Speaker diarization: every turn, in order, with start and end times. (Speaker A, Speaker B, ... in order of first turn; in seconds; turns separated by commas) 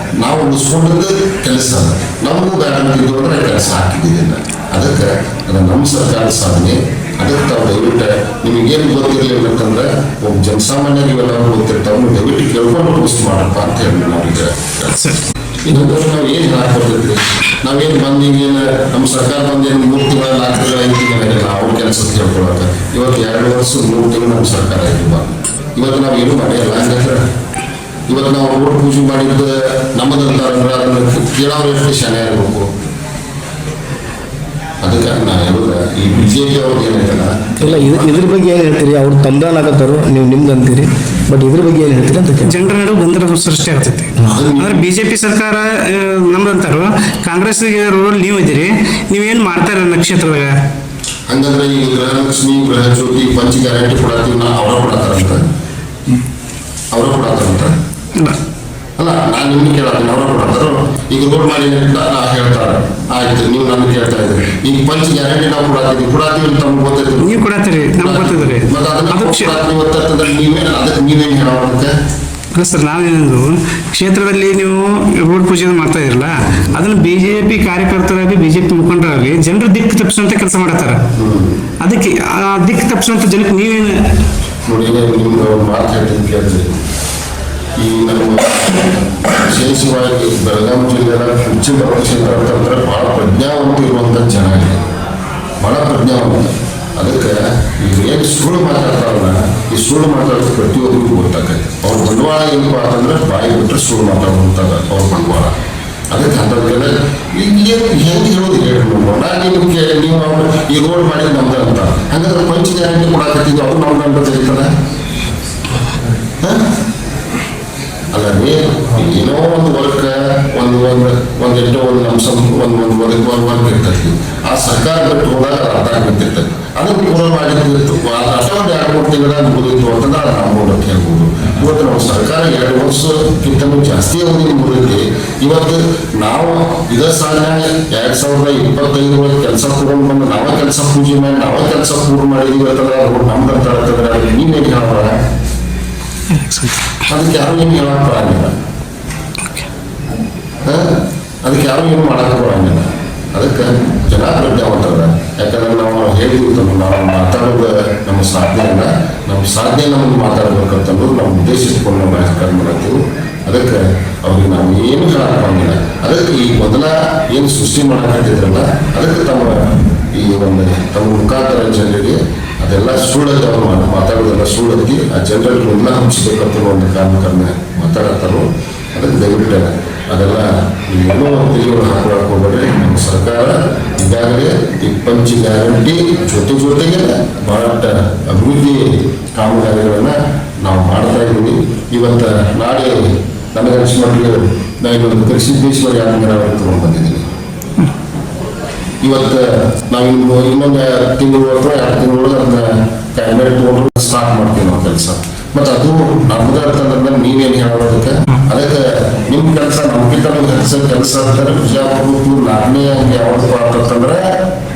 Speaker A: 0.2-14.9, Speaker A: 15.6-27.2, Speaker A: 28.1-32.7, Speaker A: 34.8-38.2, Speaker B: 37.6-42.6, Speaker C: 42.4-50.5, Speaker A: 44.2-44.9, Speaker A: 51.3-55.4, Speaker A: 56.9-57.7, Speaker A: 59.0-71.9, Speaker C: 67.2-69.5, Speaker C: 72.5-81.0, Speaker A: 81.1-81.6, Speaker C: 81.8-83.9, Speaker A: 84.7-86.7, Speaker A: 87.8-94.8, Speaker A: 95.6-105.5, Speaker A: 106.1-114.7, Speaker A: 116.4-116.7, Speaker A: 118.1-145.1, Speaker C: 146.3-146.9, Speaker A: 147.1-148.5, Speaker A: 150.6-197.3, Speaker A: 199.0-214.4